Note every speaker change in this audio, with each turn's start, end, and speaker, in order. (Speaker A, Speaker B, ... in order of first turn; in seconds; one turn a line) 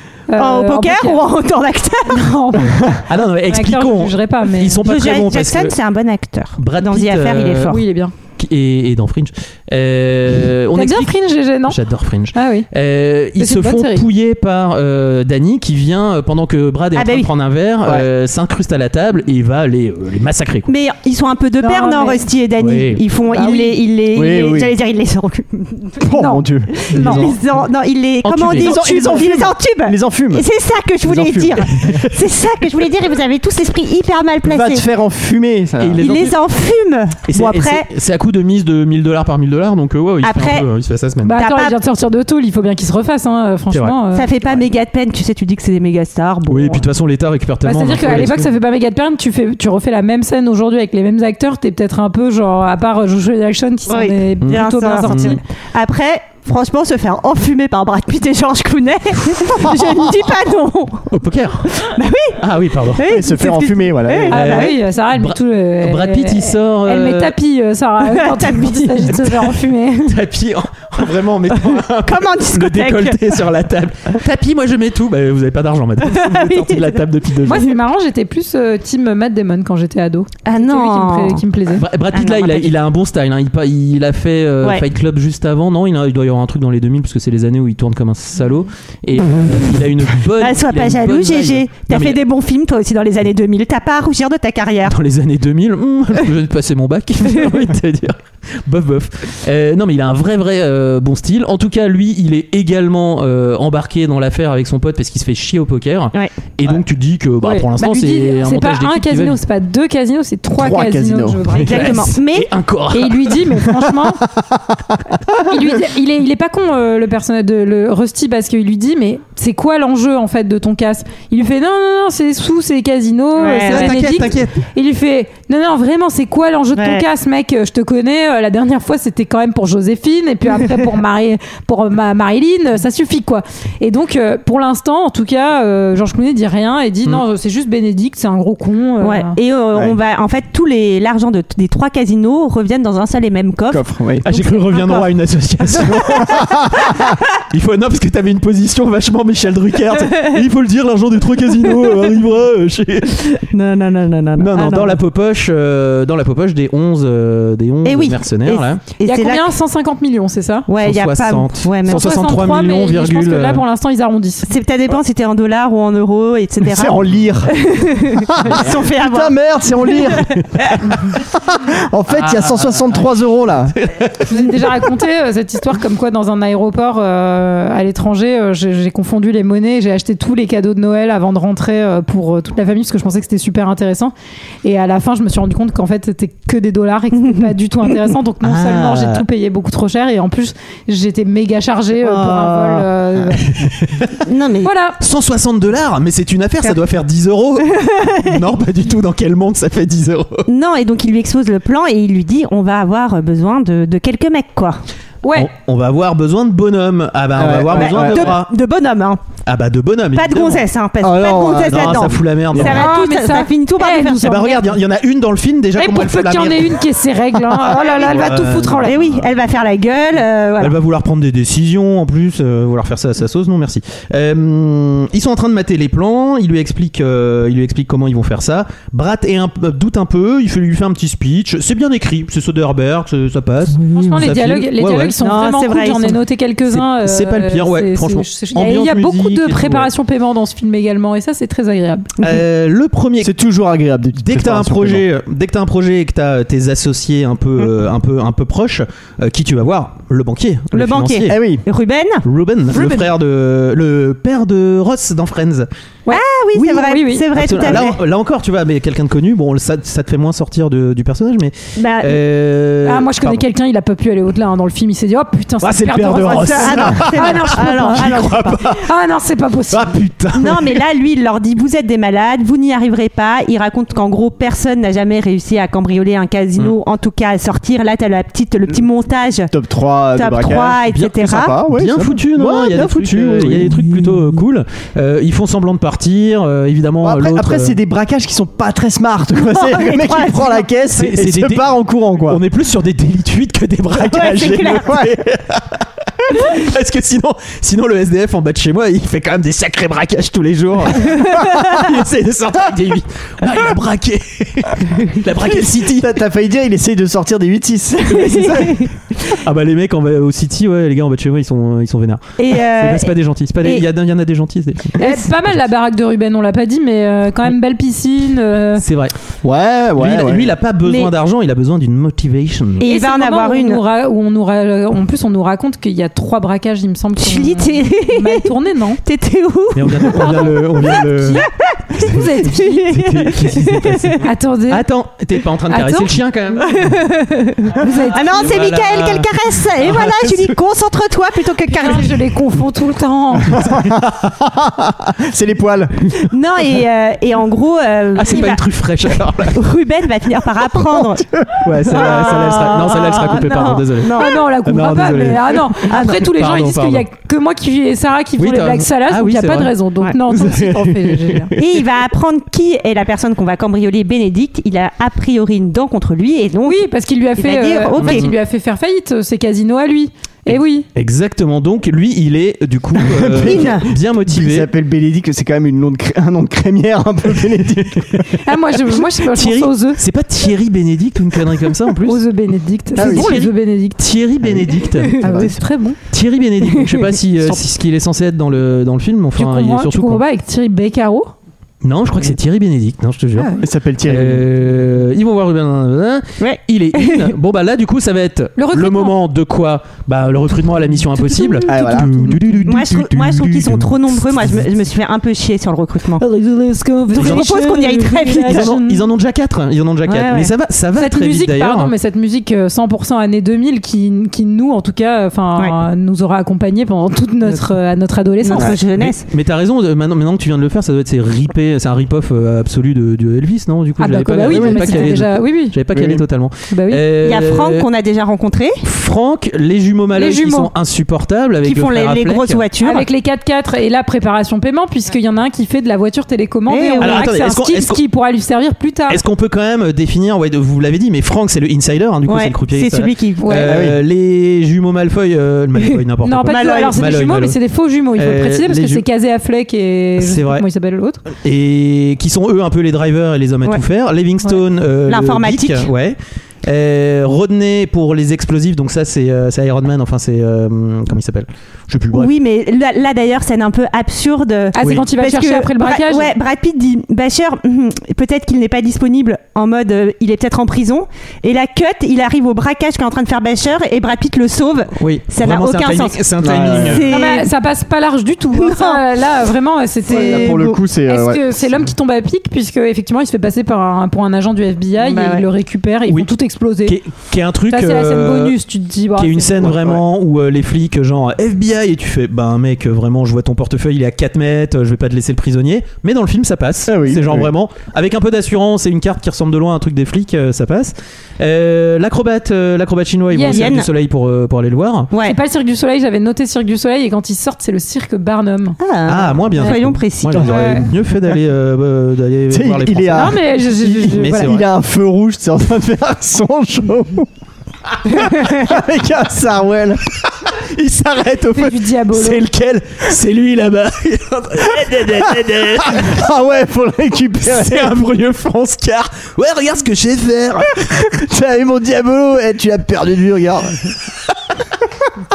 Speaker A: 0.3-1.2
Speaker B: 0.4-2.3
Speaker A: 2.1-4.8
Speaker C: 3.1-5.8
Speaker B: 4.8-7.8
Speaker C: 6.6-7.7
Speaker A: 7.7-8.1
Speaker C: 8.3-11.1
Speaker A: 10.7-11.8
Speaker C: 11.7-20.7
Speaker A: 12.3-12.7
Speaker A: 13.4-14.0
Speaker B: 16.9-17.3
Speaker B: 20.7-26.0
Speaker A: 21.6-22.2
Speaker C: 22.6-23.0
Speaker A: 23.3-23.8
Speaker D: 24.1-24.7
Speaker D: 26.0-27.3
Speaker A: 26.2-26.4
Speaker B: 26.8-34.9
Speaker C: 26.9-27.4
Speaker C: 28.2-28.7
Speaker D: 28.6-30.4
Speaker D: 31.0-32.0
Speaker C: 31.8-32.1
Speaker D: 34.4-36.0
Speaker C: 35.8-36.4
Speaker B: 36.0-37.9
Speaker C: 37.3-41.4
Speaker B: 40.2-40.6
Speaker A: 41.2-44.3
Speaker B: 41.4-41.8
Speaker C: 43.7-44.6
Speaker B: 44.1-46.9
Speaker C: 46.5-48.5
Speaker A: 47.6-55.4
Speaker B: 53.9-61.1
Speaker C: 54.4-55.4
Speaker C: 61.1-61.8
Speaker B: 61.7-62.4
Speaker C: 62.4-63.0
Speaker B: 62.9-64.8
Speaker D: 63.0-64.3
Speaker A: 64.3-70.2
Speaker C: 64.3-67.3
Speaker B: 68.0-69.4
Speaker C: 70.0-77.7
Speaker B: 72.0-73.4
Speaker B: 76.0-77.0
Speaker A: 77.5-81.8
Speaker B: 80.5-81.4
Speaker C: 81.8-92.2
Speaker B: 82.1-82.7
Speaker B: 90.4-94.9
Speaker C: 94.9-109.4
Speaker A: 107.4-112.0
Speaker D: 110.5-111.5
Speaker C: 111.6-113.4
Speaker B: 111.6-112.5
Speaker A: 112.9-114.2
Speaker D: 114.4-115.4
Speaker A: 115.5-139.3
Speaker B: 123.3-124.2
Speaker C: 123.7-124.6
Speaker B: 126.8-127.0
Speaker B: 139.0-145.0
Speaker D: 143.7-144.2
Speaker C: 144.2-146.9
Speaker D: 146.4-146.8
Speaker C: 147.5-153.4
Speaker B: 153.5-155.0
Speaker C: 154.4-158.8
Speaker B: 157.8-159.4
Speaker A: 159.0-160.7
Speaker B: 160.7-162.2
Speaker C: 160.8-163.6
Speaker A: 161.9-164.5
Speaker B: 164.4-169.3
Speaker D: 166.6-167.6
Speaker D: 168.1-170.3
Speaker B: 169.9-170.8
Speaker D: 170.9-173.7
Speaker C: 172.1-173.1
Speaker C: 173.8-174.9
Speaker A: 174.3-184.1
Speaker A: 184.6-193.5
Speaker B: 187.2-187.5
Speaker C: 188.4-189.2
Speaker C: 192.1-192.7
Speaker C: 193.5-194.1
Speaker B: 194.2-194.7
Speaker A: 194.6-195.0
Speaker C: 195.0-200.5
Speaker B: 197.6-198.4
Speaker B: 200.5-204.8
Speaker A: 205.2-205.5
Speaker C: 205.3-208.5
Speaker D: 207.3-208.4
Speaker B: 207.7-209.2
Speaker C: 209.4-210.6
Speaker B: 210.1-214.6
Speaker D: 211.0-212.8
Speaker C: 211.6-212.9
Speaker A: 212.6-214.7
Speaker C: 214.2-216.8
Speaker A: 215.8-218.9
Speaker C: 217.7-219.3
Speaker B: 217.8-220.8
Speaker C: 220.6-235.2
Speaker A: 233.9-242.1
Speaker B: 235.2-236.2
Speaker C: 236.7-239.9
Speaker C: 242.2-243.3
Speaker D: 243.2-245.1
Speaker C: 244.2-251.4
Speaker B: 250.7-252.2
Speaker D: 251.3-251.6
Speaker C: 252.2-255.7
Speaker A: 252.7-253.1
Speaker A: 256.1-257.2
Speaker B: 256.1-258.0
Speaker C: 257.3-263.4
Speaker B: 261.8-262.2
Speaker A: 262.8-270.0
Speaker C: 265.6-268.8
Speaker D: 266.3-266.8
Speaker B: 266.6-268.6
Speaker C: 269.7-270.8
Speaker B: 270.4-279.5
Speaker D: 279.5-284.3
Speaker B: 280.1-281.6
Speaker C: 280.9-287.8
Speaker D: 287.0-292.4
Speaker B: 289.4-290.6
Speaker C: 291.0-291.7
Speaker C: 292.2-306.1
Speaker B: 294.0-295.0
Speaker D: 305.7-308.7
Speaker B: 308.1-308.9
Speaker C: 308.2-315.6
Speaker B: 312.4-313.8
Speaker A: 315.0-318.8
Speaker C: 318.8-319.1
Speaker D: 319.4-320.5
Speaker C: 320.0-322.9
Speaker A: 320.8-321.1
Speaker B: 322.8-323.8
Speaker A: 322.8-329.0
Speaker B: 327.2-328.5
Speaker B: 329.0-330.5
Speaker C: 329.7-331.4
Speaker A: 330.0-332.9
Speaker C: 332.0-336.7
Speaker B: 332.4-334.2
Speaker A: 334.2-334.9
Speaker A: 335.7-336.1
Speaker B: 336.6-342.2
Speaker A: 337.8-338.4
Speaker C: 338.3-339.3
Speaker C: 339.8-340.5
Speaker A: 341.8-343.6
Speaker D: 343.5-346.1
Speaker C: 343.6-344.1
Speaker B: 346.3-351.2
Speaker C: 348.1-349.6
Speaker D: 350.8-351.7
Speaker C: 351.6-357.1
Speaker B: 351.9-354.4
Speaker A: 354.2-361.5
Speaker B: 355.9-356.2
Speaker C: 358.4-359.7
Speaker C: 360.3-361.4
Speaker B: 361.6-366.9
Speaker A: 366.6-370.9
Speaker B: 367.4-368.3
Speaker C: 368.0-368.3
Speaker C: 370.5-374.7
Speaker D: 373.0-378.4
Speaker B: 373.4-373.9
Speaker A: 378.4-380.0
Speaker C: 379.3-382.2
Speaker A: 382.0-384.0
Speaker D: 382.9-383.4
Speaker C: 383.0-385.5
Speaker D: 385.2-385.5
Speaker A: 385.2-386.0
Speaker C: 386.1-390.2
Speaker A: 389.4-391.3
Speaker C: 391.8-393.5
Speaker A: 393.4-393.6
Speaker D: 393.6-394.5
Speaker C: 394.1-404.6
Speaker B: 396.4-397.3
Speaker A: 398.6-399.2
Speaker A: 401.2-402.0
Speaker D: 401.7-402.4
Speaker B: 402.7-406.2
Speaker A: 406.2-409.0
Speaker B: 407.1-408.7
Speaker C: 407.1-407.5
Speaker C: 408.4-411.9
Speaker B: 410.1-410.5
Speaker A: 410.9-418.7
Speaker B: 418.4-419.2
Speaker C: 418.6-427.9
Speaker A: 424.0-425.8
Speaker D: 424.4-425.1
Speaker D: 425.9-426.2
Speaker A: 426.7-427.0
Speaker B: 427.2-428.8
Speaker C: 428.8-432.6
Speaker A: 430.1-430.7
Speaker B: 431.6-433.1
Speaker A: 432.8-439.2
Speaker B: 436.7-437.3
Speaker C: 437.0-438.0
Speaker C: 439.1-447.6
Speaker B: 442.3-443.6
Speaker A: 443.4-443.8
Speaker D: 443.7-444.0
Speaker A: 446.2-451.2
Speaker B: 446.4-447.1
Speaker C: 448.1-449.0
Speaker C: 450.2-450.6
Speaker C: 451.3-462.3
Speaker B: 455.1-455.9
Speaker B: 462.1-477.5
Speaker A: 464.7-466.3
Speaker C: 464.8-465.0
Speaker C: 475.0-477.1
Speaker D: 476.4-477.0
Speaker A: 477.1-487.0
Speaker B: 478.5-479.0
Speaker B: 480.1-480.8
Speaker D: 480.1-481.4
Speaker B: 485.0-485.5
Speaker C: 486.8-488.6
Speaker A: 487.7-489.7
Speaker C: 489.1-505.1
Speaker D: 489.6-490.0
Speaker D: 496.9-497.5
Speaker A: 503.3-503.8
Speaker B: 503.5-503.9
Speaker B: 505.1-505.4
Speaker A: 505.2-508.8
Speaker B: 508.8-510.5
Speaker C: 509.1-514.6
Speaker A: 510.4-510.9
Speaker D: 512.5-517.3
Speaker A: 513.1-514.5
Speaker D: 518.2-520.0
Speaker C: 520.7-526.2
Speaker A: 521.5-522.4
Speaker D: 525.8-528.0
Speaker C: 527.4-531.1
Speaker D: 531.0-533.9